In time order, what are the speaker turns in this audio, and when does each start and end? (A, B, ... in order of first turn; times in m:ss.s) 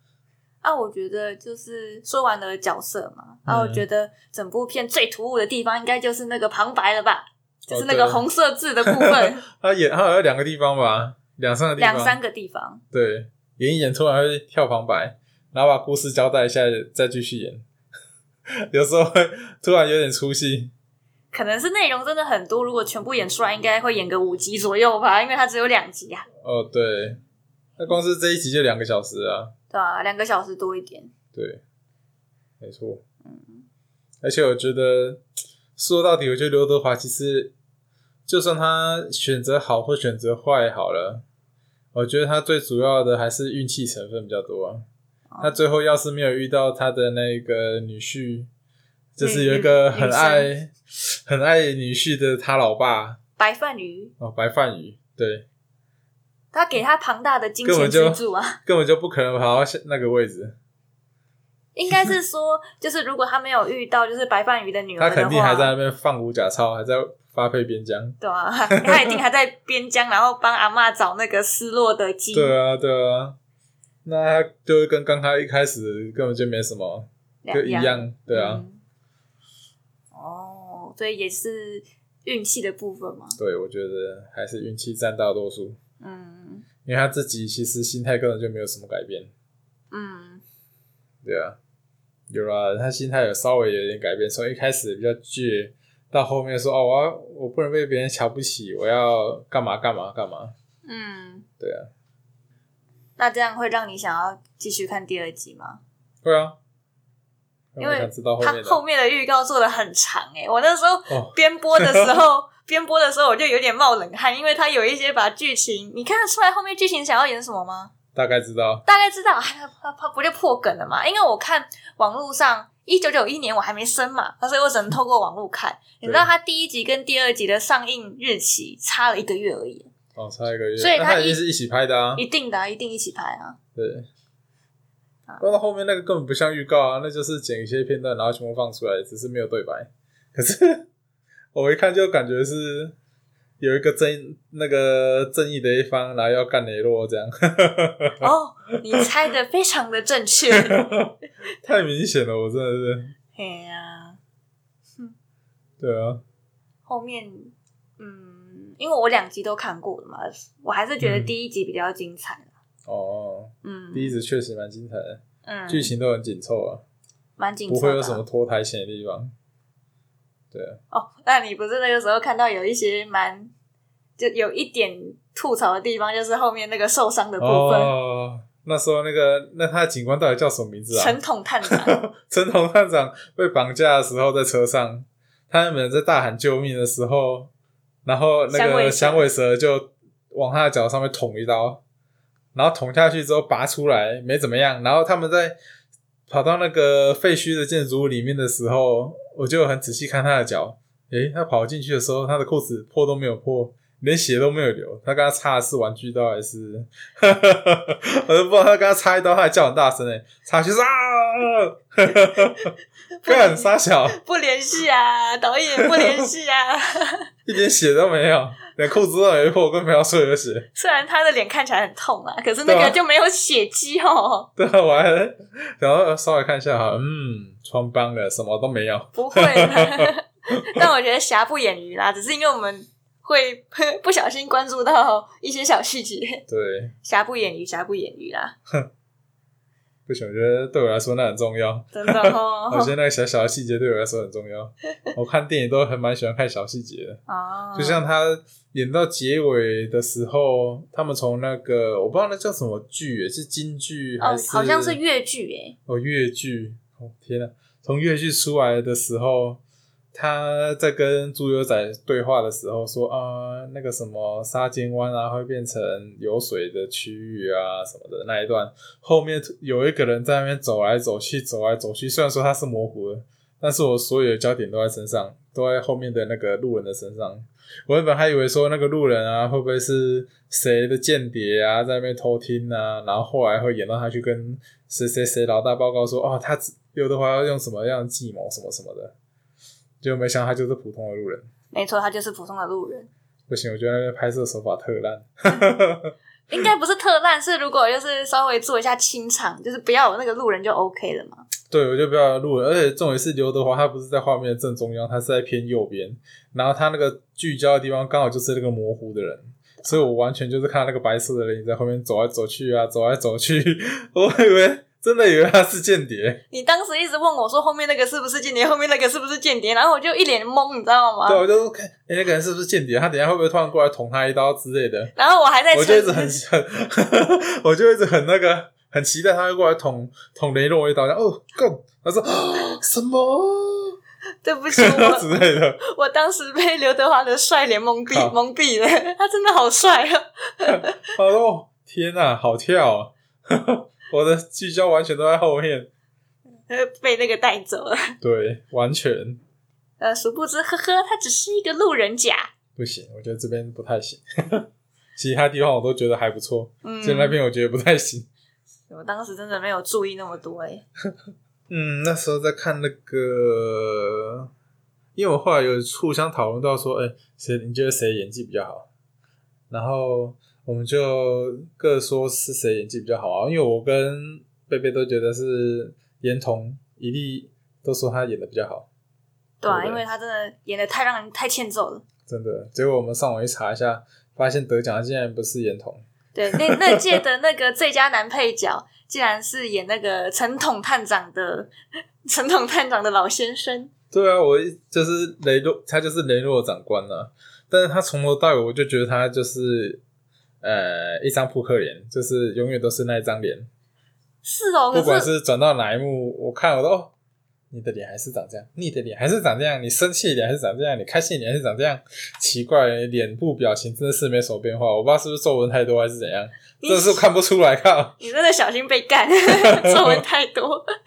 0:00.6-0:09.4 A
0:03.5-0:03.8 B
0:07.7-0:08.2 B
0:08.8-0:12.2 B
0:11.8-0:12.8 A
0:12.9-0:17.6 B
0:18.7-0:20.7 B
0:21.3-0:26.3 A
0:26.4-0:27.2 B
0:27.8-0:29.5 B
0:29.7-0:31.1 A
0:31.3-0:31.6 B
0:32.6-0:33.0 B
0:33.2-0:33.7 A
0:34.2-0:35.2 B
0:35.8-0:37.5 B
0:38.3-0:41.2 B
0:41.9-0:44.8 B
0:45.3-0:45.6 A
0:45.4-0:48.5 B
0:49.2-0:53.2 B
0:49.2-0:50.5 A
0:53.4-0:54.1 A
0:54.2-0:55.4 B
0:56.5-0:58.6 A
0:57.6-1:00.6 B
1:01.8-1:05.7 A
1:05.0-1:08.2 B
1:08.2-1:12.6 A
1:08.7-1:09.1 B
1:12.3-1:13.4 B
1:14.0-1:18.6 B
1:17.4-1:18.8 A
1:20.1-1:23.4 A
1:23.4-1:25.8 B
1:26.0-1:26.7 A
1:26.8-1:29.3 B
1:29.9-1:30.4 A
1:31.2-1:31.6 B
1:32.3-1:40.5 B
1:40.8-1:41.5 A
1:41.6-1:41.9 B
1:43.2-1:45.8 A
1:46.2-1:46.6 B
1:47.8-1:48.8 B
1:47.8-1:57.9 A
1:51.1-1:52.2 B
1:58.2-1:58.8 B
1:58.9-2:09.9 A
2:06.0-2:06.3 B
2:10.2-2:12.2 B
2:10.8-2:11.4 A
2:12.2-2:13.6 A
2:13.8-2:14.1 B
2:15.4-2:20.9 B
2:21.5-2:23.0 B
2:23.6-2:28.3 B
2:28.2-2:30.8 A
2:30.5-2:33.2 B
2:33.4-2:34.2 A
2:35.8-2:36.2 B
2:36.9-2:42.5 A
2:41.0-2:41.3 B
2:42.9-2:46.8 B
2:43.6-2:44.2 A
2:45.5-2:45.9 A
2:47.4-2:48.2 A
2:47.7-2:49.3 B
2:50.5-2:50.8 B
2:50.9-2:53.5 A
2:54.2-2:57.9 A
2:57.4-3:07.5 B
3:00.9-3:02.0 A
3:08.0-3:11.8 B
3:08.5-3:09.2 A
3:12.5-3:15.6 B
3:16.3-3:32.7 B
3:33.2-3:37.3 A
3:33.2-3:34.2 B
3:35.8-3:36.2 B
3:37.5-3:40.7 B
3:40.8-3:44.5 A
3:42.6-3:43.0 B
3:44.6-3:50.1 B
3:49.1-3:56.4 A
3:56.5-3:57.0 B
3:57.0-3:58.5 A
4:00.1-4:07.2 B
4:01.9-4:02.9 A
4:07.3-4:08.0 A
4:07.8-4:15.0 B
4:14.2-4:15.8 A
4:15.9-4:19.6 B
4:20.1-4:49.1 B
4:50.0-4:51.5 B
4:51.7-4:53.1 A
4:53.5-4:56.7 B
4:56.5-5:01.4 A
5:01.7-5:16.4 B
5:16.5-5:21.4 A
5:21.3-5:25.1 B
5:25.2-5:26.4 A
5:25.7-5:34.0 B
5:34.4-5:41.0 A
5:34.7-5:35.8 B
5:40.7-5:45.9 B
5:46.7-5:48.2 A
5:48.2-5:49.4 B
5:50.0-5:52.5 A
5:52.8-5:58.3 B
5:56.8-5:57.4 A
5:58.9-6:00.8 A
6:01.7-6:04.5 B
6:05.2-6:08.9 B
6:09.7-6:18.9 B
6:19.6-6:22.0 A
6:19.7-6:20.0 B
6:22.3-6:27.0 B
6:26.4-6:31.7 A
6:32.2-6:33.9 A
6:34.1-6:40.0 B
6:40.6-6:43.7 B
6:44.4-6:45.3 A
6:44.9-6:47.1 B
6:47.7-6:58.2 B
6:56.8-6:57.2 A
6:58.2-7:00.9 A
6:59.5-7:00.2 B